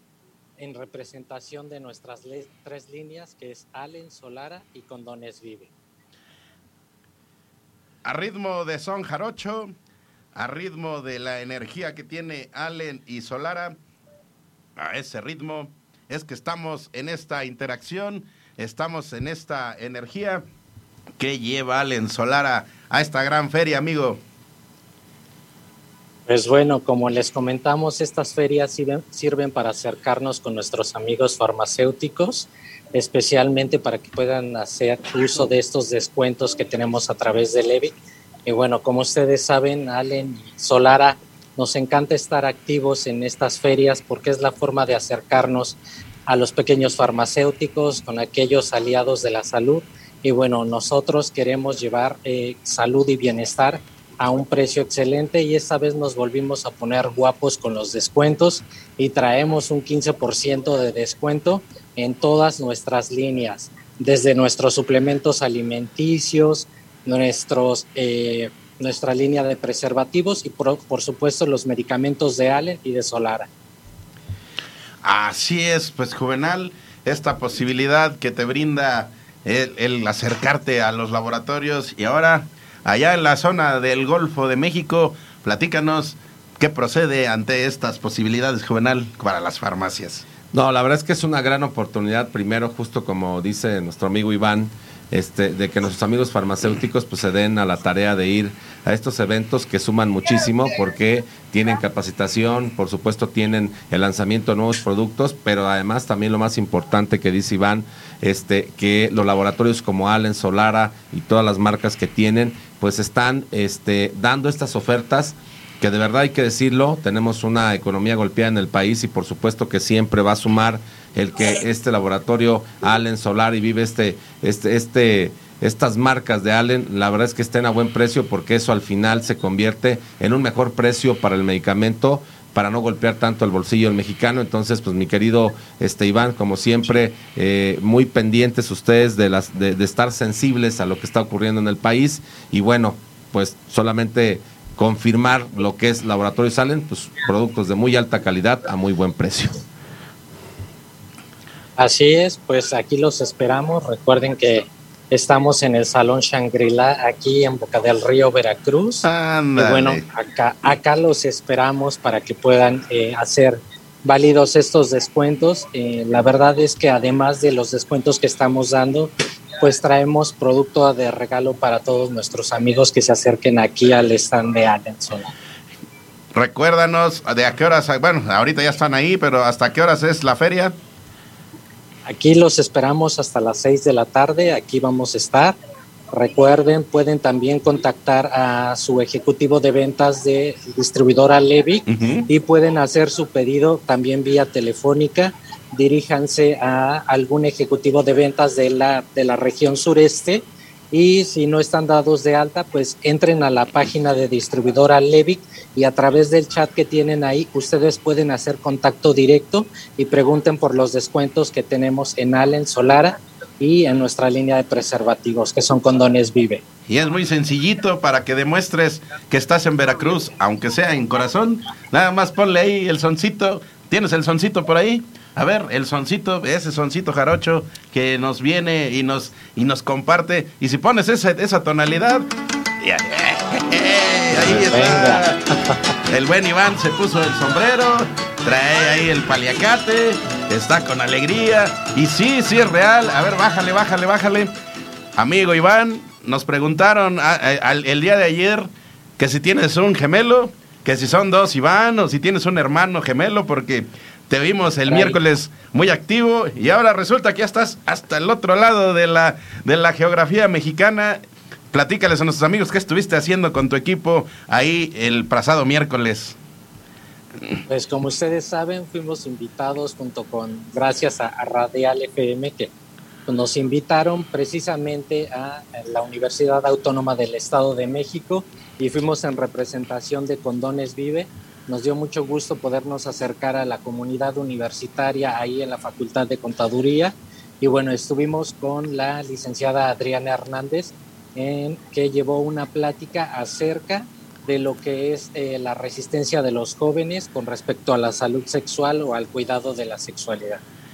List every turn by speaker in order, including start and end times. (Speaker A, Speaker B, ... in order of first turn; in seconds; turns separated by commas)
Speaker A: 0.6-5.7, Speaker B: 8.0-9.7, Speaker B: 10.3-13.8, Speaker B: 14.8-20.4, Speaker B: 21.2-24.2, Speaker A: 26.3-73.5, Speaker B: 75.0-90.2, Speaker C: 90.5-149.6, Speaker A: 151.8-175.3, Speaker B: 159.0-160.0, Speaker B: 176.3-180.7, Speaker A: 182.1-185.6, Speaker A: 186.1-216.6, Speaker B: 191.9-192.2, Speaker B: 216.9-232.2, Speaker B: 232.8-235.4, Speaker A: 234.4-235.8, Speaker B: 236.1-244.5, Speaker B: 245.2-261.2, Speaker A: 254.9-255.2, Speaker B: 261.7-266.4, Speaker A: 267.7-272.7, Speaker A: 273.3-300.6